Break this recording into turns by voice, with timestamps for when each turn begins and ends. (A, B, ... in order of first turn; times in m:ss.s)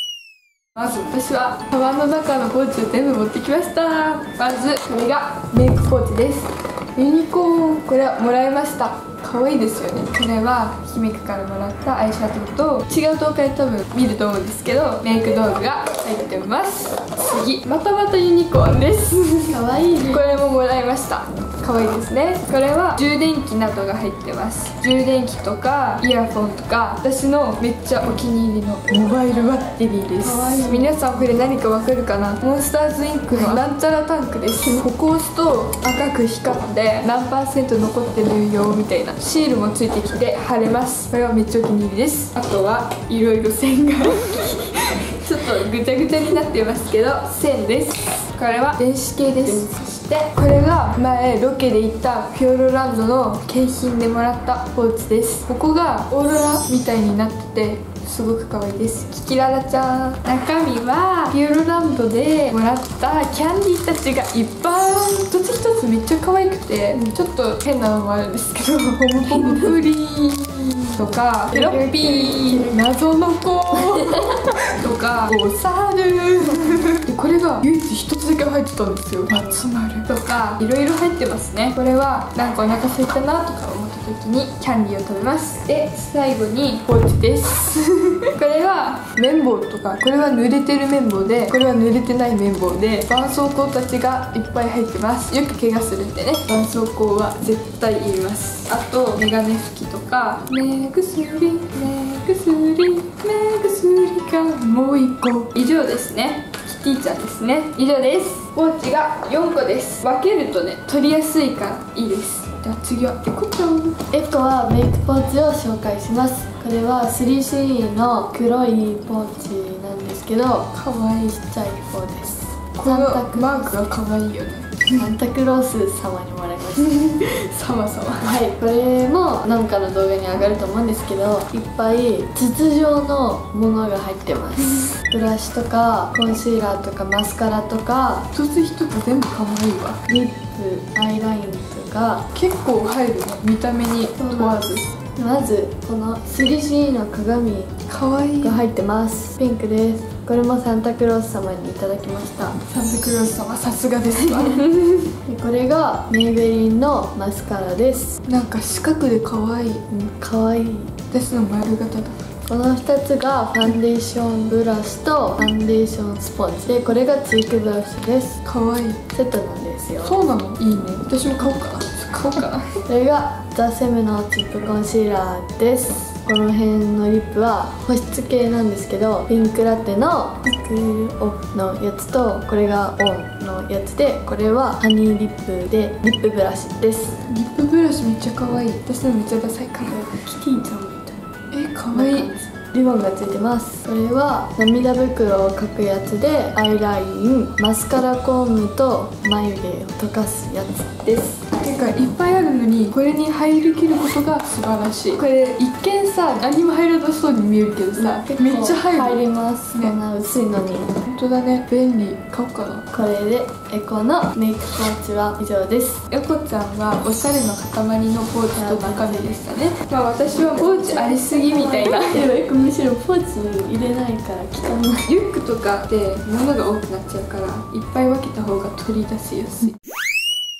0:00.7-1:54.0 A
0:19.5-0:20.3 B
0:30.2-0:31.2 B
1:11.6-1:12.7 B
1:54.1-2:00.7 B
2:00.7-2:01.3 A
2:01.3-2:03.9 B
2:02.8-2:05.1 A
2:05.0-2:06.9 B
2:06.8-2:08.3 A
2:08.2-2:18.3 B
2:18.3-2:20.0 A
2:20.1-2:22.3 B
2:22.3-2:24.8 A
2:24.2-2:27.8 B
2:27.9-2:28.6 A
2:28.4-2:32.6 B
2:32.6-2:35.1 A
2:35.2-2:38.2 B
2:38.2-2:40.1 A
2:40.2-2:40.9 B
2:41.1-2:42.2 A
2:42.5-2:48.4 B
2:48.4-2:49.0 A
2:49.1-2:50.2 B
2:50.0-2:52.8 A
2:52.8-3:07.2 B
3:07.2-3:10.0 A
3:09.9-3:11.2 B
3:11.5-3:12.3 A
3:11.9-3:21.0 B
3:21.0-3:29.2 A
3:28.0-3:31.0 B
3:31.1-3:32.9 A
3:32.9-3:36.0 B
3:36.1-3:42.3 A
3:38.6-3:39.4 B
3:40.2-3:45.1 B
3:45.1-3:49.7 A